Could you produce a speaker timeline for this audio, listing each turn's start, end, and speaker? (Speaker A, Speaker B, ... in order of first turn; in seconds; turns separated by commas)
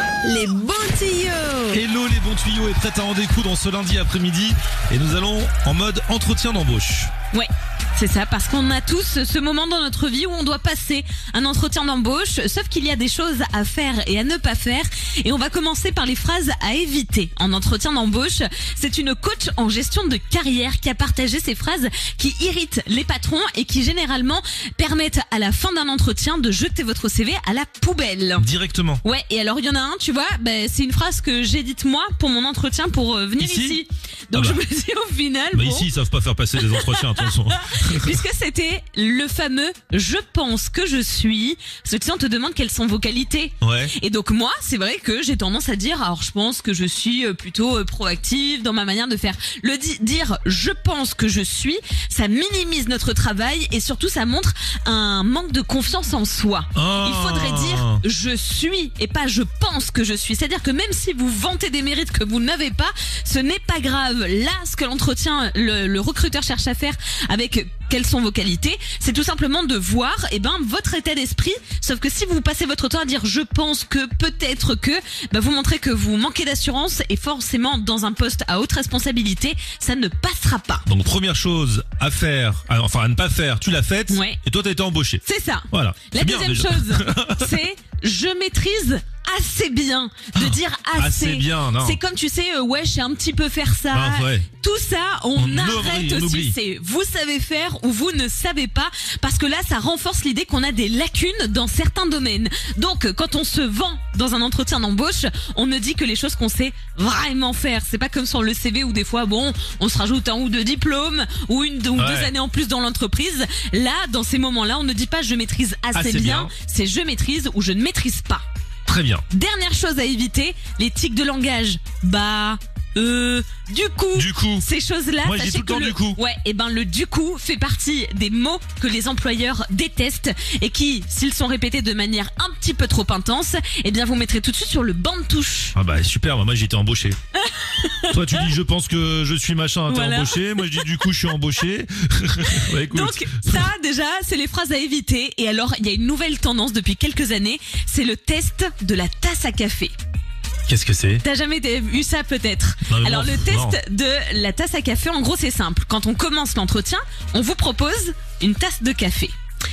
Speaker A: 0.2-1.8, Speaker B: 1.7-7.1, Speaker A: 7.3-28.5, Speaker B: 28.4-29.0, Speaker A: 29.0-35.9, Speaker B: 33.4-33.8, Speaker B: 34.3-34.6, Speaker B: 35.5-38.2, Speaker A: 36.6-80.8, Speaker B: 43.6-43.9, Speaker B: 56.7-58.0, Speaker B: 80.9-87.5, Speaker A: 84.1-84.4, Speaker A: 85.2-118.4, Speaker B: 90.3-92.0, Speaker B: 93.9-94.5, Speaker B: 95.3-96.5, Speaker B: 112.0-112.3, Speaker B: 115.9-116.5, Speaker B: 118.9-119.2, Speaker A: 119.3-135.8, Speaker B: 124.1-124.7, Speaker B: 125.2-126.2, Speaker B: 135.8-137.2, Speaker A: 137.4-138.5, Speaker B: 138.1-143.7, Speaker A: 139.9-141.1, Speaker A: 142.5-149.9, Speaker B: 150.7-151.2, Speaker A: 151.2-159.3, Speaker B: 152.9-153.8